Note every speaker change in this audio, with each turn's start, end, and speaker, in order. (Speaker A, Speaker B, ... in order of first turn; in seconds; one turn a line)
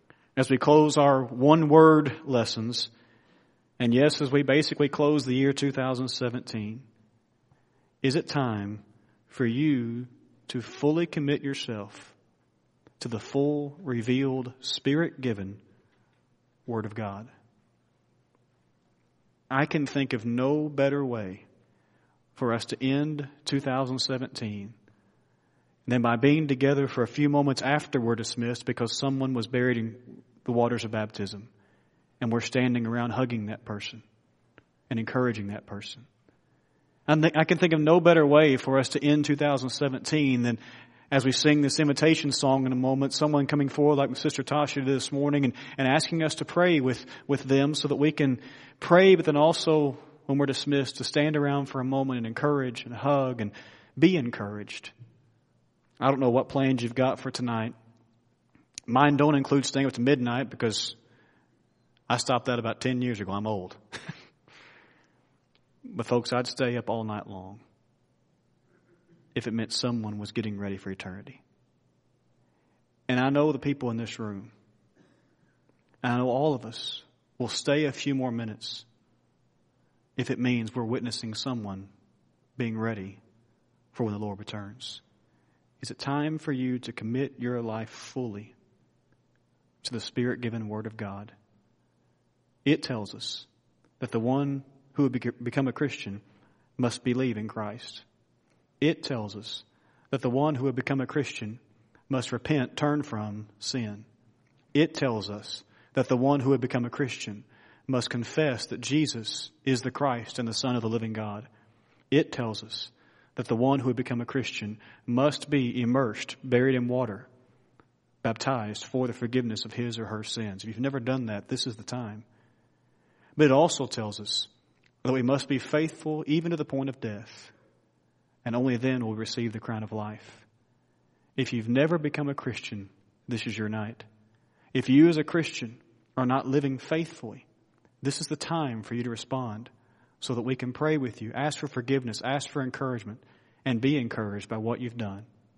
Speaker A: 0.4-2.9
Speaker A: 3.8-6.8
Speaker A: 8.0-12.2
Speaker A: 13.0-15.6
Speaker A: 16.7-17.3
Speaker A: 19.5-21.4
Speaker A: 22.4-24.8
Speaker A: 25.9-31.5
Speaker A: 32.2-34.0
Speaker A: 34.9-36.1
Speaker A: 37.1-40.6
Speaker A: 41.1-54.9
Speaker A: 56.0-57.7
Speaker A: 58.9-61.0
Speaker A: 62.1-63.8
Speaker A: 65.9-67.6
Speaker A: 69.3-71.4
Speaker A: 73.1-74.5
Speaker A: 76.0-78.8
Speaker A: 80.2-81.9
Speaker A: 82.6-83.2
Speaker A: 83.9-85.0
Speaker A: 85.8-88.5
Speaker A: 89.8-91.3
Speaker A: 92.7-93.5
Speaker A: 94.0-96.2
Speaker A: 96.8-98.0
Speaker A: 98.8-104.0
Speaker A: 104.7-111.5
Speaker A: 112.1-117.3
Speaker A: 118.2-122.2
Speaker A: 123.4-124.5
Speaker A: 125.0-127.5
Speaker A: 128.4-130.4
Speaker A: 131.4-134.1
Speaker A: 134.7-137.5
Speaker A: 138.0-139.7
Speaker A: 140.2-145.3